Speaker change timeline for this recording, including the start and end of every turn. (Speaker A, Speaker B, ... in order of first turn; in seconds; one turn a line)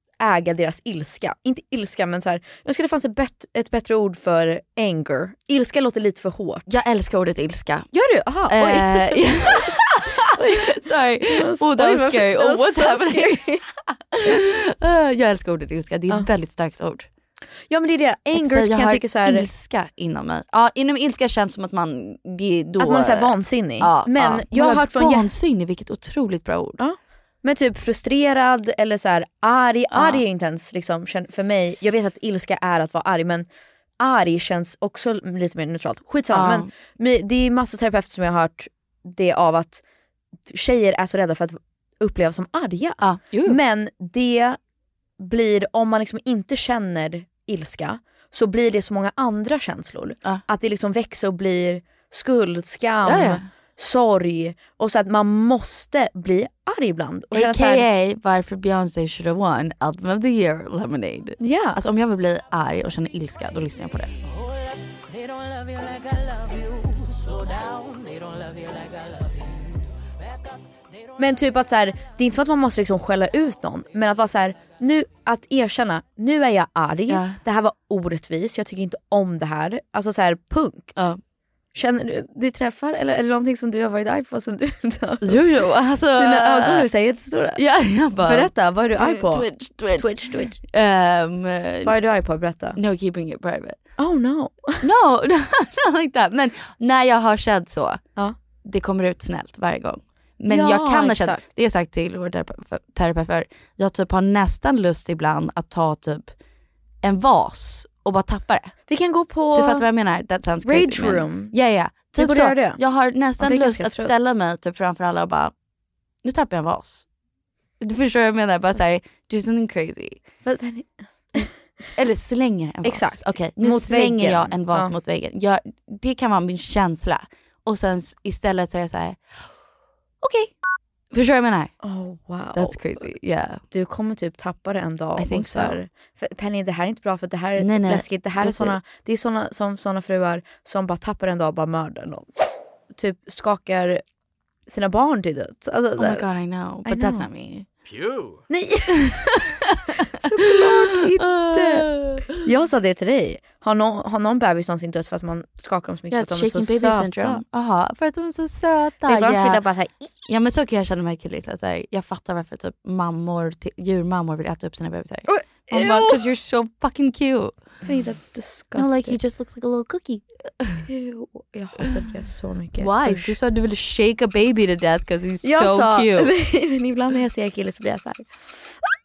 Speaker A: 0.2-6.7
Speaker B: 6.7-7.9
Speaker A: 7.9-9.7
Speaker B: 8.5-17.1
Speaker A: 10.3-13.5
Speaker A: 17.7-19.5
Speaker B: 18.3-26.8
Speaker A: 22.8-25.3
Speaker A: 26.8-33.5
Speaker B: 29.9-30.2
Speaker A: 34.0-39.8
Speaker B: 36.3-36.7
Speaker A: 40.5-44.6
Speaker B: 43.0-43.6
Speaker A: 45.2-57.9
Speaker B: 53.0-53.5
Speaker B: 57.3-64.1
Speaker A: 61.4-61.8
Speaker C: 65.1-69.8
Speaker A: 71.2-81.1
Speaker B: 77.1-77.4
Speaker A: 81.7-85.4
Speaker B: 85.2-86.9
Speaker A: 86.1-87.6
Speaker B: 87.5-91.9
Speaker A: 88.2-90.6
Speaker A: 91.8-92.8
Speaker B: 92.7-93.8
Speaker A: 94.0-94.8
Speaker B: 94.8-98.0
Speaker B: 98.6-106.3
Speaker A: 100.5-101.5
Speaker B: 107.0-108.8
Speaker A: 108.9-109.9
Speaker B: 109.5-115.5
Speaker A: 110.6-111.5
Speaker A: 112.2-112.8
Speaker A: 113.4-114.1
Speaker B: 116.2-117.0
Speaker B: 117.8-120.2
Speaker A: 120.4-121.5
Speaker B: 121.4-129.2
Speaker A: 122.8-124.9
Speaker B: 130.2-130.5
Speaker B: 131.1-131.7
Speaker A: 131.8-133.0
Speaker B: 132.5-133.6
Speaker A: 133.7-142.2
Speaker B: 135.2-135.8
Speaker B: 137.6-138.8
Speaker A: 142.9-144.0
Speaker A: 144.7-146.2
Speaker B: 146.0-147.7
Speaker A: 146.8-147.3
Speaker A: 148.5-149.5
Speaker A: 150.1-157.4
Speaker B: 150.4-152.4
Speaker B: 156.1-159.6
Speaker A: 159.1-160.1
Speaker B: 160.3-167.6
Speaker A: 165.3-166.2
Speaker A: 167.8-169.2
Speaker B: 168.8-170.9
Speaker A: 170.9-173.3
Speaker B: 172.8-176.3
Speaker A: 175.4-178.7